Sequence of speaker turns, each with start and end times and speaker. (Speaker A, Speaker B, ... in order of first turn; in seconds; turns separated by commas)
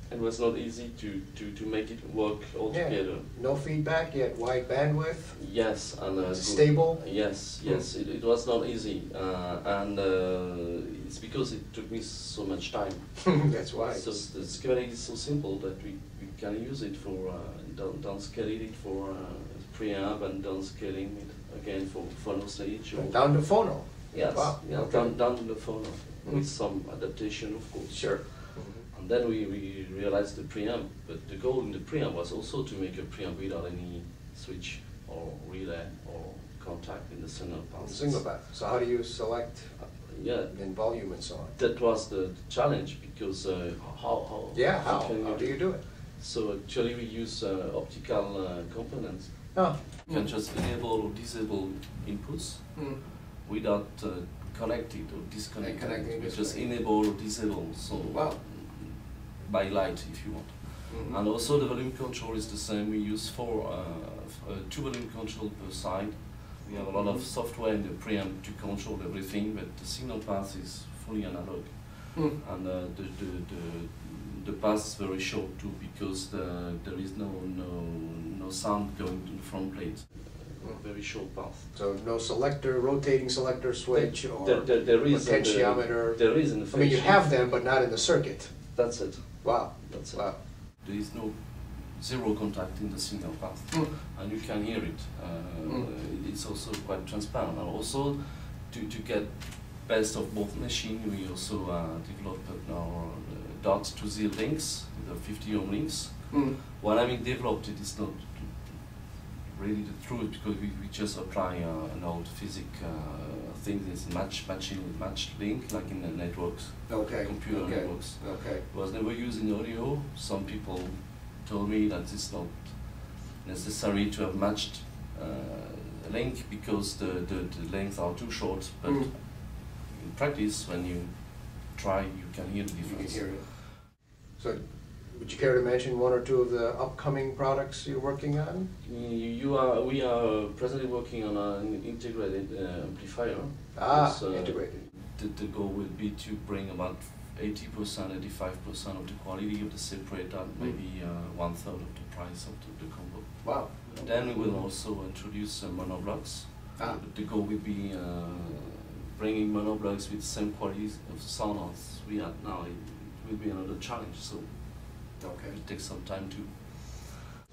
Speaker A: 0.1-3.3, Speaker B: 2.7-5.5, Speaker A: 5.3-23.4, Speaker B: 6.3-7.0, Speaker B: 13.2-14.2, Speaker B: 23.0-25.2, Speaker A: 24.1-38.2, Speaker B: 27.9-28.8, Speaker B: 37.8-39.7, Speaker A: 39.8-40.6, Speaker B: 40.5-41.5, Speaker A: 41.5-81.7, Speaker B: 44.5-45.8, Speaker B: 49.5-50.2, Speaker B: 52.8-53.0, Speaker B: 55.6-56.6, Speaker B: 58.1-58.4, Speaker B: 60.9-61.2, Speaker B: 66.7-67.2, Speaker B: 81.7-88.6, Speaker A: 83.9-87.3, Speaker A: 88.8-108.8, Speaker B: 89.4-90.4, Speaker B: 106.3-106.6, Speaker A: 109.5-133.4, Speaker B: 116.9-118.6, Speaker B: 132.8-133.7, Speaker B: 135.1-138.7, Speaker A: 138.8-164.5, Speaker B: 143.8-144.7, Speaker B: 153.4-154.3, Speaker B: 165.2-165.6, Speaker A: 165.5-167.2